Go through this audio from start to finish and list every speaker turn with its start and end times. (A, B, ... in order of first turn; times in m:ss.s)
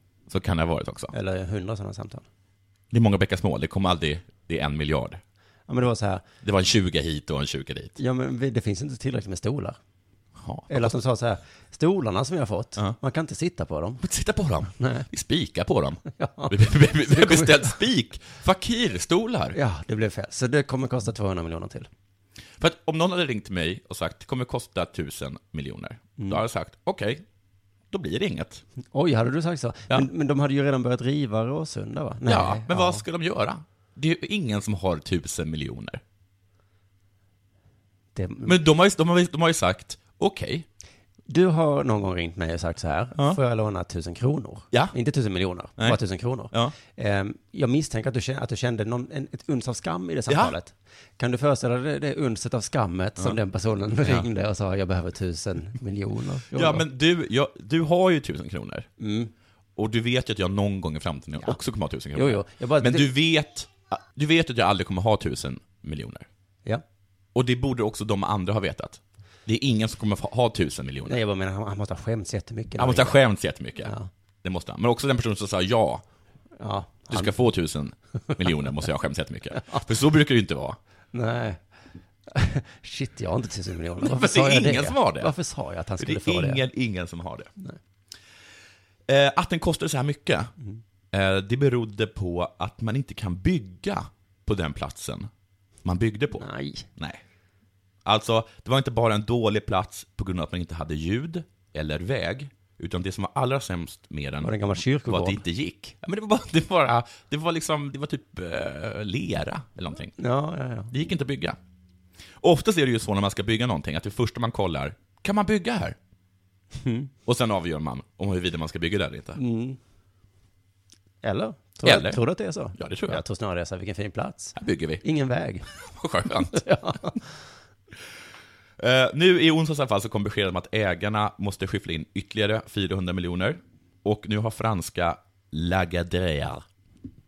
0:00.3-0:01.1 A
0:01.1-0:02.3 B
0:02.9-0:05.2 A
0:05.7-0:06.2 B
0:06.4-0:08.0 A
0:08.0-0:09.8 B
0:10.4-0:10.9 A
0:10.7-0:14.0 B
0:14.0-0:19.6 A
0:14.8-0:15.1 B
0:16.1-0:17.8 B
0:19.5-0:21.9 B
0:22.6-0:27.2 A
0:27.9-0:28.6 A
0:28.9-0:33.0 B
0:32.3-0:36.0 A
0:38.2-0:38.6 B
0:38.4-0:40.7 A
0:41.3-0:56.8 B
0:50.3-0:50.6 A
0:54.0-0:54.3 A
0:56.5-0:58.9 A
0:59.0-0:59.3 B
0:59.8-1:06.3 A
1:02.2-1:03.1 B
1:07.3-1:11.2 A
1:11.0-1:13.2 B
1:12.8-1:16.0 A
1:16.6-1:17.3 B
1:17.1-1:20.8 A
1:21.1-1:21.6 B
1:22.3-1:26.6 B
1:24.0-1:25.3 A
1:26.0-1:27.5 A
1:29.1-1:30.5 A
1:31.1-1:35.3 A
1:35.8-1:36.5 A
1:36.4-1:36.9 B
1:38.0-1:50.1 A
1:44.4-1:45.4 B
1:50.2-1:50.9 B
1:50.9-1:51.6 A
1:52.4-1:56.0 A
1:56.7-1:57.1 B
1:57.3-1:59.4 A
1:59.4-1:59.8 B
2:01.2-2:05.7 B
2:01.8-2:02.2 A
2:02.8-2:03.2 A
2:04.6-2:05.0 A
2:05.8-2:06.6 A
2:06.4-2:07.3 B
2:08.8-2:16.6 A